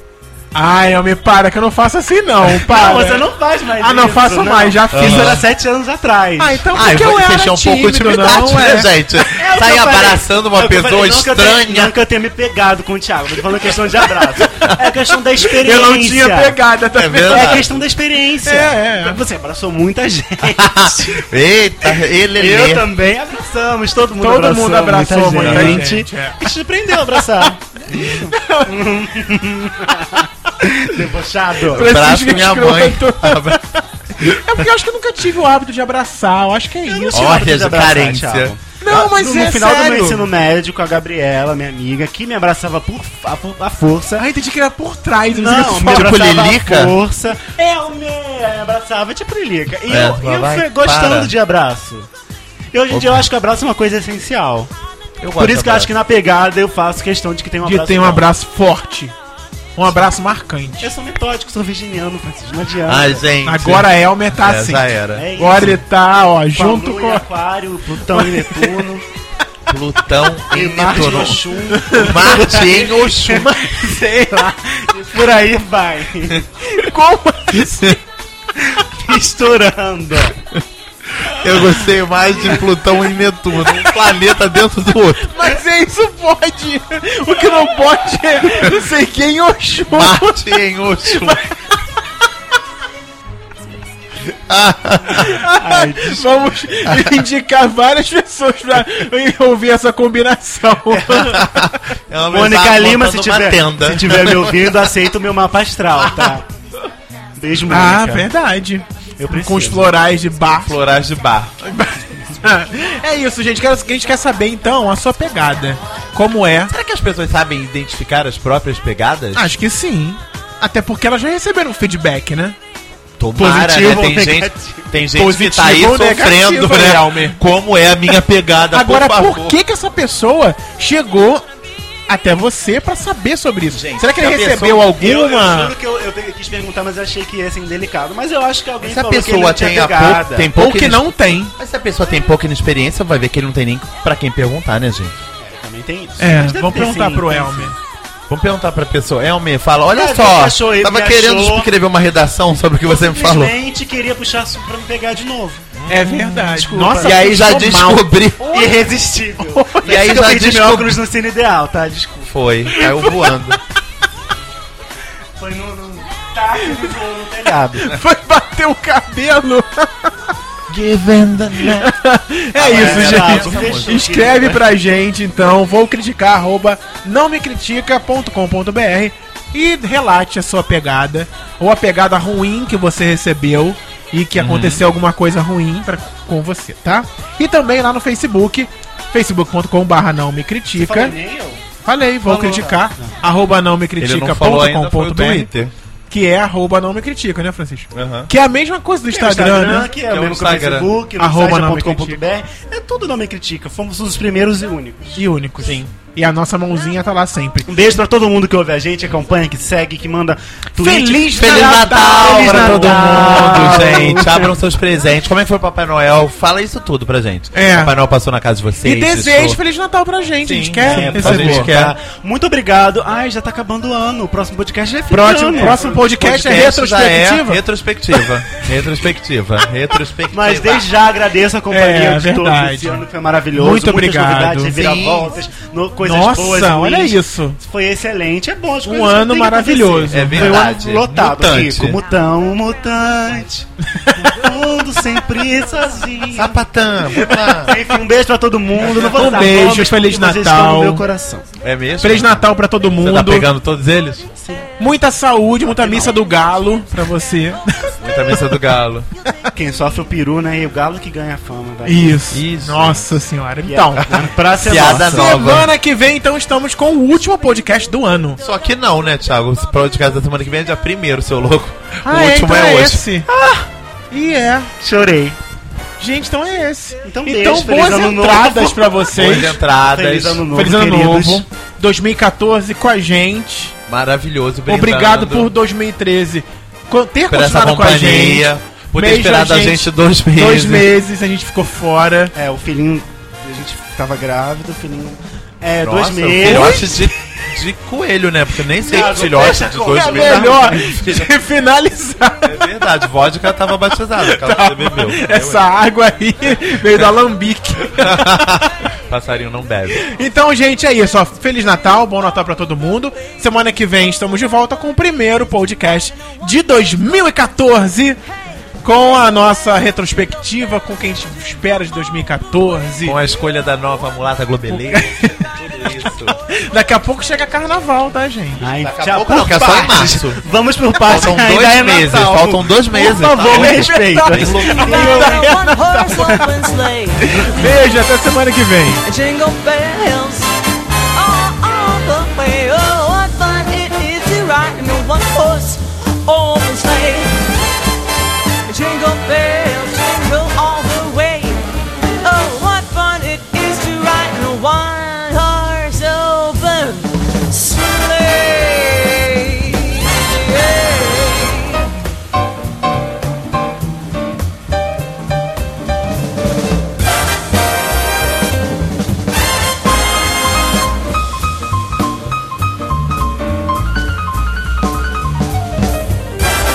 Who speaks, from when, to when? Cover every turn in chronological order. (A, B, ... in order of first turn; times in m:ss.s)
0:00.5-0:05.4 A
0:02.5-0:06.6 B
0:05.0-0:05.4 C
0:06.4-0:08.9 A
0:06.7-0:11.9 C
0:09.2-0:16.6 B
0:14.4-0:14.7 C
0:15.5-0:17.7 A
0:16.9-0:17.7 C
0:17.3-0:21.3 B
0:18.4-0:19.2 A
0:20.5-0:22.9 C
0:22.3-0:31.9 B
0:24.2-0:26.4 A
0:25.4-0:25.8 C
0:27.9-0:28.2 C
0:28.2-0:28.7 A
0:31.7-0:33.6 C
0:31.7-0:37.4 A
0:36.8-0:44.2 B
0:37.1-0:38.5 C
0:38.8-0:40.3 A
0:44.2-0:46.2 A
0:45.3-0:52.1 B
0:45.7-0:47.0 C
0:49.9-0:51.3 C
0:52.7-0:54.7 B
0:52.9-0:53.2 C
0:55.2-0:55.9 C
0:55.3-0:58.2 B
0:57.6-0:59.1 A
0:59.8-1:00.9 A
1:00.8-1:03.2 B
1:02.8-1:05.3 C
1:03.4-1:07.2 A
1:05.1-1:05.8 B
1:06.5-1:09.0 B
1:08.1-1:08.9 A
1:09.7-1:13.9 C
1:10.5-1:16.5 B
1:16.6-1:18.0 A
1:18.6-1:20.4 B
1:21.2-1:25.4 C
1:25.2-1:31.5 A
1:29.9-1:31.4 C
1:34.3-1:35.4 C
1:35.2-1:41.7 A
1:35.3-1:36.3 B
1:36.8-1:37.1 C
1:40.9-1:45.1 C
1:42.3-1:46.4 B
1:46.0-1:46.4 C
1:47.4-1:48.3 B
1:47.7-1:50.7 A
1:49.2-1:49.9 B
1:50.6-1:52.1 C
1:52.4-1:56.7 A
1:56.7-1:59.5 C
1:59.3-2:02.6 A
2:03.2-2:09.6 C
2:03.4-2:04.9 B
2:05.1-2:07.4 A
2:08.7-2:11.4 A
2:12.1-2:15.7 A
2:13.7-2:14.9 C
2:15.0-2:20.5 B
2:18.8-2:25.2 C
2:20.5-2:21.5 A
2:25.4-2:27.7 B
2:26.2-2:27.8 A
2:28.3-2:33.5 C
2:29.9-2:31.7 B
2:32.9-2:35.6 B
2:35.7-2:38.5 C
2:35.9-2:38.8 A
2:36.5-2:37.2 B
2:38.5-2:42.3 B
2:39.4-2:40.1 A
2:39.8-2:41.0 C
2:42.3-2:43.6 C
2:42.7-2:43.5 A
2:45.4-2:48.0 B
2:47.8-2:50.1 A
2:50.7-2:51.9 C
2:51.6-3:11.1 A
2:52.6-2:54.1 C
2:52.6-2:54.6 B
3:04.4-3:04.9 C
3:10.7-3:11.6 B
3:11.8-3:15.5 A
3:12.2-3:13.1 B
3:14.0-3:15.7 C
3:16.1-3:19.9 A
3:17.9-3:18.3 C
3:19.1-3:25.3 B
3:20.1-3:20.9 C
3:21.2-3:22.2 A
3:25.2-3:27.7 A
3:25.6-3:25.9 C
3:27.7-3:34.5 B
3:30.8-3:34.2 A
3:31.3-3:39.6 C
3:37.5-3:38.0 A
3:38.8-3:41.7 A
3:40.4-3:41.9 C
3:40.8-3:46.0 B
3:45.1-3:47.6 A
3:45.9-3:50.9 C
3:50.3-4:06.6 B
3:51.7-3:54.7 A
3:54.7-3:55.3 C
3:56.0-3:57.6 A
3:58.8-4:00.6 A
4:00.1-4:02.0 C
4:06.3-4:07.8 C
4:07.6-4:11.5 B
4:09.0-4:11.0 A
4:11.6-4:12.5 C
4:12.0-4:13.5 A
4:13.0-4:14.3 C
4:14.4-4:14.7 B
4:14.8-4:18.5 A
4:15.7-4:16.1 B
4:18.0-4:19.1 C
4:19.5-4:22.2 B
4:21.8-4:24.3 A
4:22.3-4:23.0 C
4:23.6-4:25.3 B
4:24.6-4:25.7 C
4:24.9-4:28.4 A
4:28.4-4:33.0 C
4:32.0-4:33.3 A
4:33.3-4:33.7 B
4:34.1-4:34.7 A
4:34.8-4:35.4 B
4:36.0-4:39.6 A
4:37.0-4:38.9 B
4:39.1-4:40.5 C
4:39.9-4:41.4 B
4:40.5-4:43.8 A
4:43.9-4:45.5 C
4:44.7-4:52.3 A
4:47.3-4:50.9 C
4:52.3-4:56.9 B
4:55.8-5:00.6 C
4:56.4-4:57.1 A
4:58.8-5:01.3 B
4:59.8-5:02.7 A
5:02.4-5:05.6 C
5:04.2-5:08.7 A
5:08.0-5:10.1 C
5:09.9-5:18.2 A
5:18.8-5:23.2 A
5:23.0-5:26.4 C
5:24.7-5:28.6 A
5:28.6-5:35.4 B
5:28.7-5:30.4 C
5:31.0-5:35.0 C
5:33.5-5:36.5 A
5:34.7-5:37.7 D
5:37.2-5:39.0 A
5:39.0-5:40.5 D
5:41.1-5:47.4 D
5:48.7-5:51.6 D
5:52.2-6:01.9 D